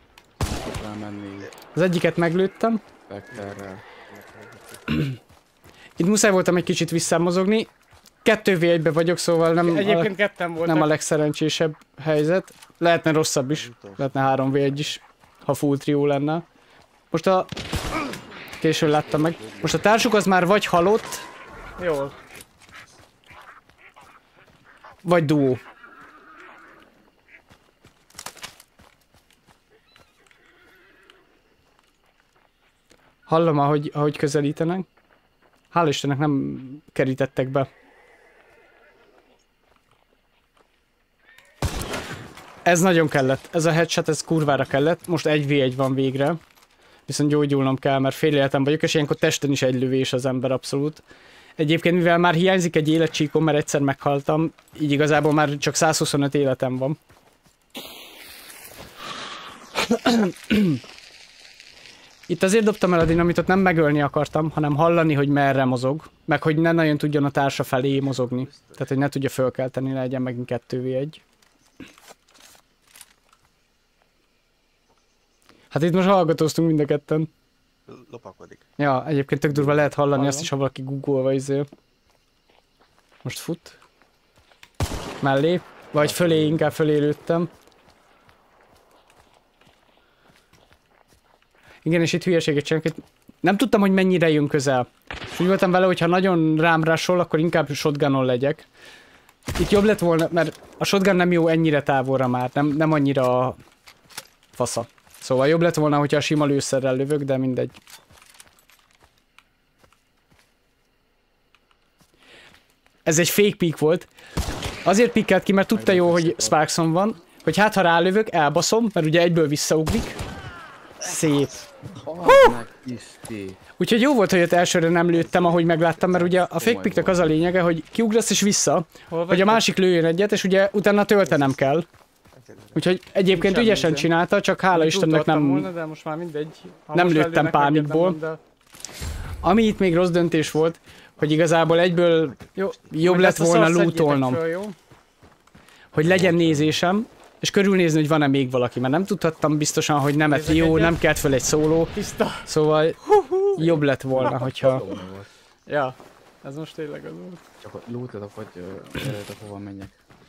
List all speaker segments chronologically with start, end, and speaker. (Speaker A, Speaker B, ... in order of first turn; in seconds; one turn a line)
Speaker A: 0.4-1.5
Speaker B: 1.8-2.8
Speaker A: 3.1-3.8
Speaker C: 3.3-5.0
Speaker B: 6.0-7.7
Speaker B: 8.2-16.4
Speaker D: 9.6-10.9
Speaker C: 13.5-14.9
Speaker B: 17.1-17.5
Speaker B: 18.6-21.2
Speaker C: 19.1-19.9
Speaker D: 21.8-22.1
Speaker B: 25.0-25.6
Speaker B: 33.3-34.9
Speaker B: 35.7-37.7
Speaker B: 42.6-46.4
Speaker B: 47.1-51.0
Speaker B: 51.6-57.0
Speaker B: 59.8-60.8
Speaker B: 62.3-71.2
Speaker C: 68.0-68.9
Speaker B: 75.7-77.3
Speaker C: 77.9-78.7
Speaker B: 78.8-81.7
Speaker D: 80.1-80.5
Speaker B: 83.2-83.8
Speaker B: 85.2-87.5
Speaker B: 91.8-98.7
Speaker B: 99.6-103.6
Speaker B: 104.5-107.8
Speaker B: 113.1-114.1
Speaker B: 114.8-120.2
Speaker A: 115.7-116.6
Speaker B: 121.0-121.5
Speaker C: 121.0-121.7
Speaker A: 121.9-123.6
Speaker B: 122.2-122.5
Speaker B: 123.8-131.9
Speaker A: 125.1-127.4
Speaker D: 129.1-129.6
Speaker C: 131.2-131.6
Speaker C: 132.3-133.0
Speaker B: 132.8-135.7
Speaker D: 133.2-134.1
Speaker D: 134.7-138.4
Speaker B: 136.9-138.2
Speaker B: 139.4-142.4
Speaker C: 140.5-142.9
Speaker D: 142.6-144.8
Speaker B: 142.9-144.4
Speaker B: 145.9-151.9
Speaker A: 146.0-146.8
Speaker D: 150.3-151.0
Speaker D: 151.9-152.5
Speaker B: 152.4-154.9
Speaker D: 153.1-153.7
Speaker A: 153.6-155.3
Speaker D: 155.7-157.4
Speaker A: 157.6-159.9